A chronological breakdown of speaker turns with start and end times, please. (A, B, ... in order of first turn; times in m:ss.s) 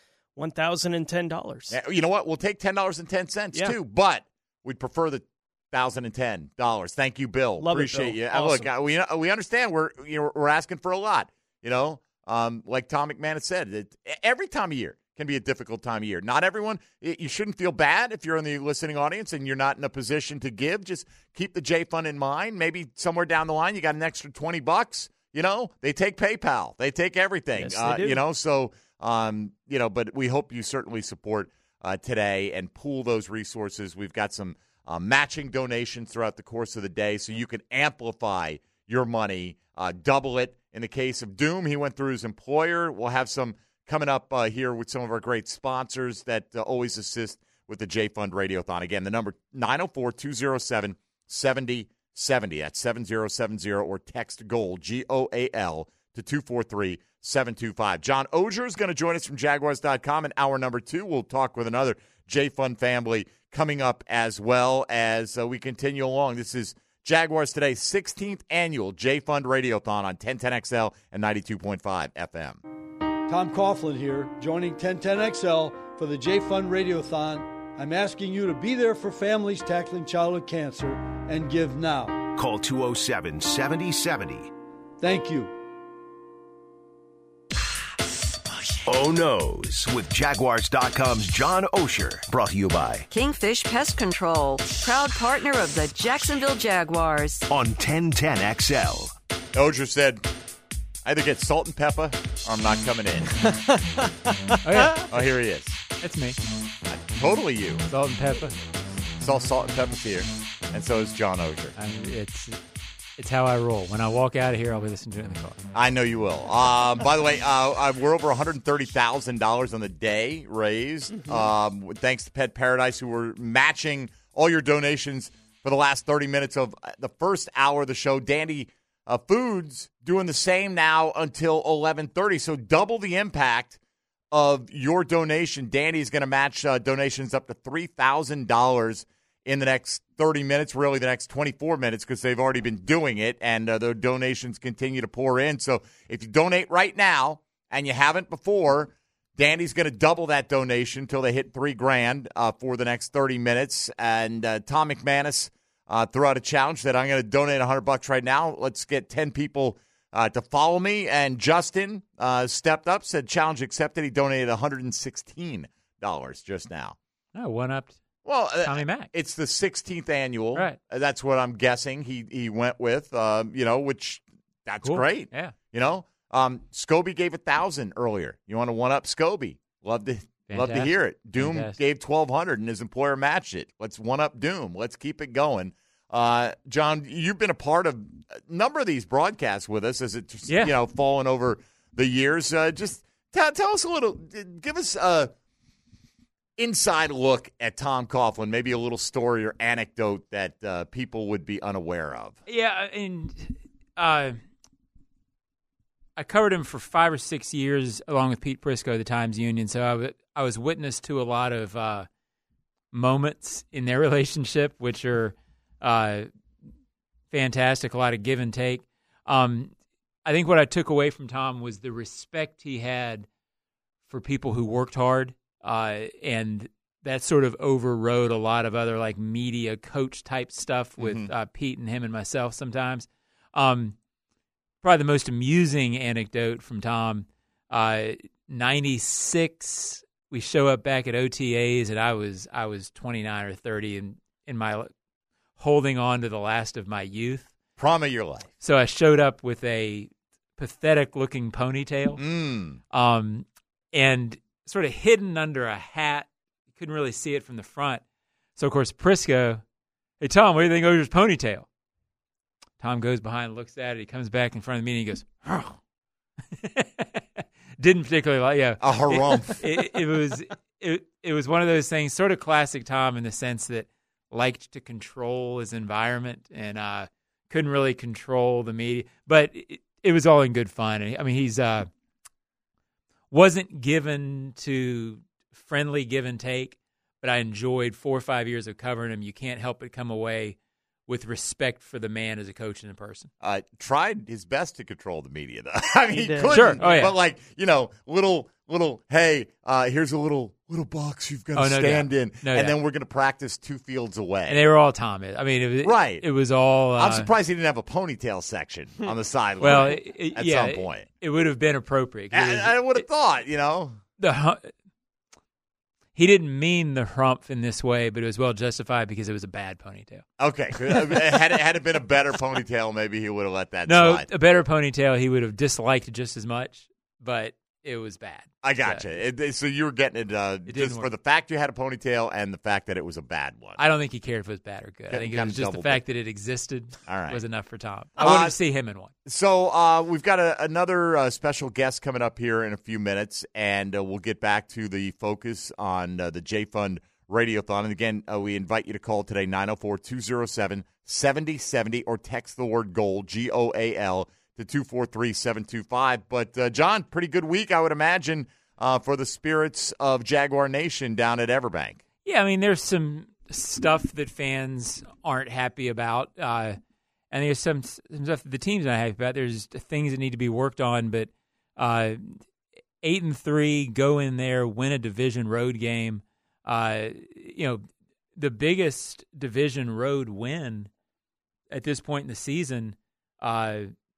0:00.4-0:01.8 A
0:01.7-1:12.6 B
0:07.6-0:08.7 A
0:27.6-0:28.2 A
1:13.3-1:22.3 C
1:22.3-1:24.5 D
1:25.0-1:25.5 C
1:28.8-1:33.1 D
1:33.1-1:37.4 E
1:37.5-1:39.1 D
1:39.5-1:40.2 B
1:41.0-1:43.3 B
1:44.6-1:45.3 F
1:45.1-1:45.8 B
1:45.9-1:46.4 F
1:46.9-1:47.8 B
1:47.9-1:48.6 F
1:49.2-1:51.7 B
1:51.8-1:52.6 F
1:53.2-1:55.6 F
1:55.7-2:13.8 B
2:14.3-2:47.0 B
2:47.4-2:48.0 F
2:48.2-3:15.3 B
2:48.6-2:49.1 F
2:54.8-2:55.5 F
3:00.5-3:01.8 F
3:10.5-3:10.8 F
3:16.6-3:22.4 B
3:22.5-3:24.4 F
3:26.2-3:32.1 F
3:32.9-3:36.3 F
3:37.3-3:39.7 F
3:40.2-3:43.3 F
3:44.1-3:54.0 F
3:51.0-3:51.3 B
3:54.8-4:04.9 F
4:05.6-4:07.6 F
4:07.8-4:08.5 B
4:08.6-4:12.2 F
4:12.2-4:12.8 B
4:12.9-4:18.0 F
4:18.6-4:19.6 F
4:20.2-4:21.7 F
4:22.8-4:25.7 F
4:26.6-4:41.9 F
4:28.8-4:29.6 B
4:43.3-4:53.3 F
4:53.4-5:04.6 B
4:56.1-4:57.0 A
4:56.5-4:57.1 F
5:01.6-5:02.8 F
5:04.5-5:07.3 F
5:05.8-5:06.2 B
5:07.0-5:11.1 B
5:09.6-5:13.0 F
5:12.3-5:14.0 B
5:14.2-5:14.7 F
5:16.2-5:20.2 F
5:20.4-5:24.3 B
5:23.9-5:29.1 F
5:28.6-5:33.8 B
5:30.7-5:31.1 F
5:33.8-5:39.1 F
5:35.1-5:36.0 B
5:37.1-5:37.4 B
5:38.2-5:38.6 B
5:39.2-6:02.0 B
6:02.2-6:06.8 F
6:07.3-6:12.4 F
6:13.0-6:20.9 F
6:21.7-6:23.9 F